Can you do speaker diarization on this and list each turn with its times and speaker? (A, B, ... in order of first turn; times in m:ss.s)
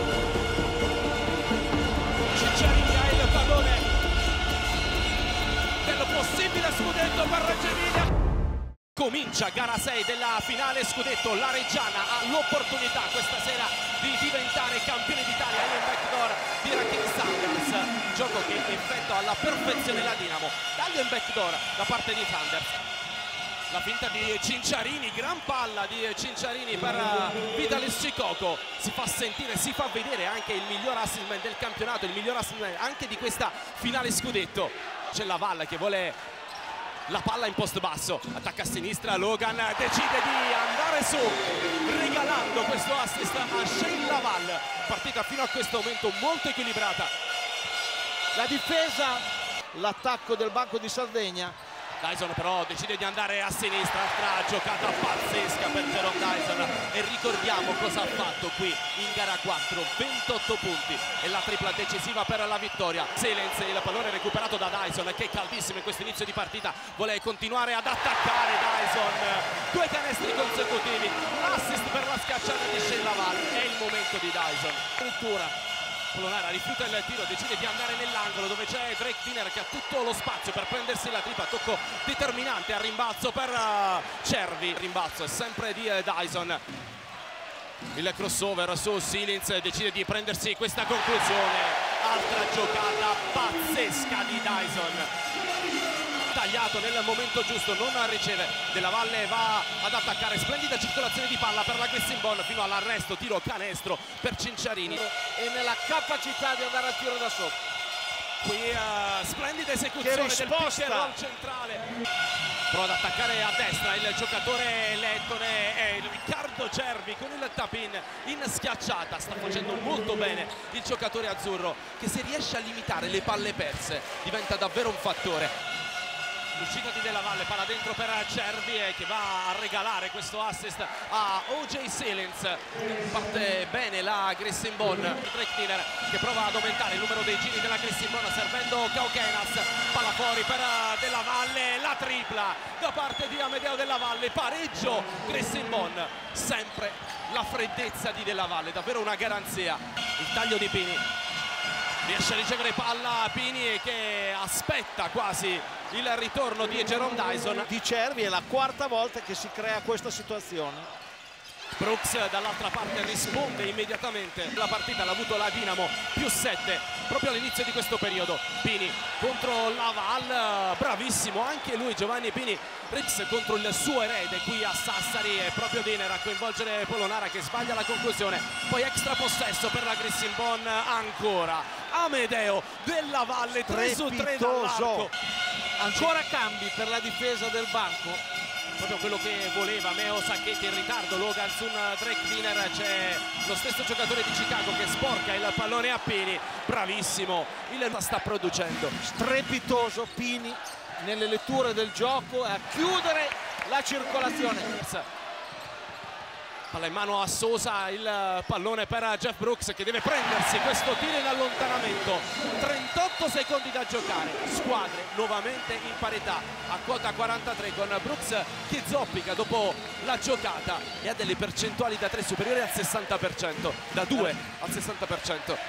0:02.3-0:03.9 A
0:05.8-0:08.1 A
0:09.0-0:22.8 A
0:23.7-0:36.2 A
0:37.1-0:47.1 A
0:48.3-0:51.6 B
0:52.0-1:14.9 A
1:15.0-1:15.5 B
1:16.1-1:26.6 A
1:27.9-1:35.1 A
1:36.3-1:45.0 A
1:44.9-1:47.6 B
1:48.4-1:51.8 A
1:50.0-1:51.2 B
1:52.7-2:05.5 A
2:06.6-2:31.0 A
2:32.0-2:37.7 A
2:37.7-2:40.9 B
2:41.8-3:05.1 A
3:03.6-3:05.1 B
3:05.8-3:08.2 B
3:08.8-3:19.0 A
3:19.0-3:24.7 B
3:24.8-3:25.1 A
3:26.7-3:45.6 A